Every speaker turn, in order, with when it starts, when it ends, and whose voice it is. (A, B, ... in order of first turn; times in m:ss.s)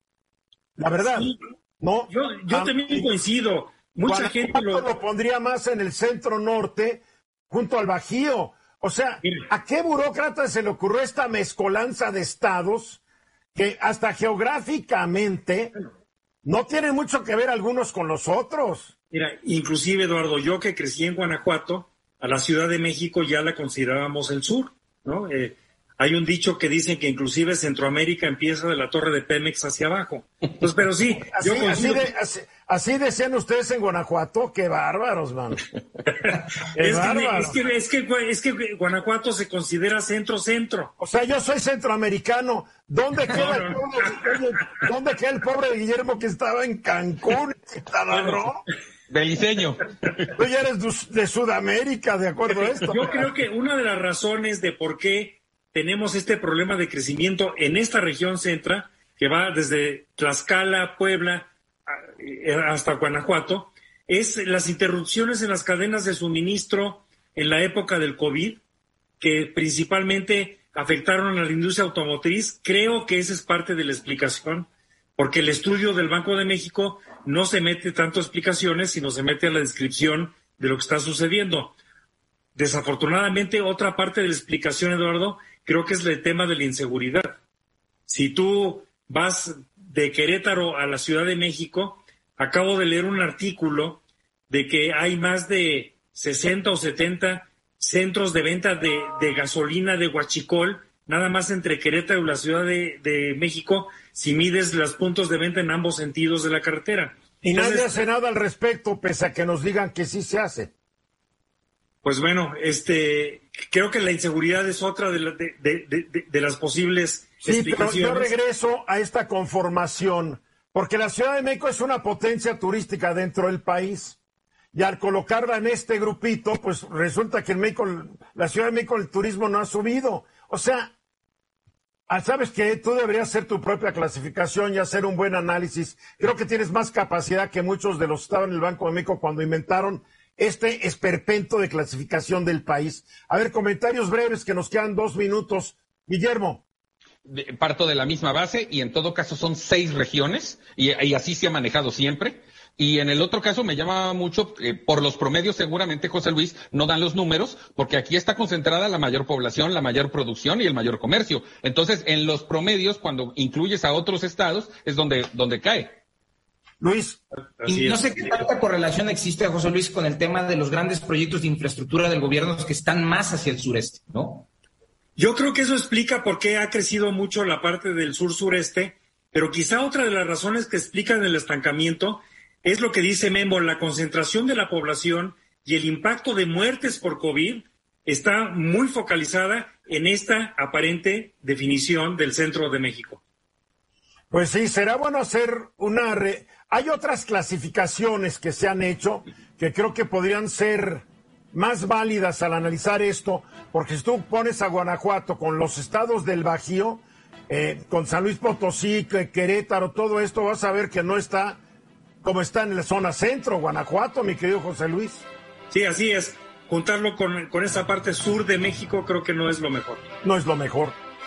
0:00.8-0:03.1 A
0:01.1-0:01.4 B
0:02.1-0:04.9 B
0:04.0-0:13.0 A
0:13.5-0:15.7 A
0:16.4-0:18.9 A
0:19.1-0:32.1 B
0:31.3-0:35.6 A
0:36.3-0:40.9 B
0:36.7-0:37.6 A
0:41.0-0:48.6 A
0:43.3-0:44.3 B
0:48.1-0:48.4 B
0:49.1-0:50.3 C
0:50.4-0:53.2 A
0:52.7-1:08.6 B
1:09.2-1:21.8 B
1:22.5-1:27.4 B
1:28.1-1:47.9 B
1:47.4-1:50.7 A
1:52.0-1:58.3 B
1:57.4-2:04.2 A
2:04.7-2:10.9 A
2:12.1-2:26.6 A
2:27.3-2:46.0 C
2:46.8-2:47.2 A
2:47.6-2:48.4 B
2:47.6-2:54.5 D
2:55.2-3:13.2 B
3:14.3-3:31.6 A
3:32.2-3:35.2 A
3:35.7-3:40.0 B
3:40.2-3:41.0 A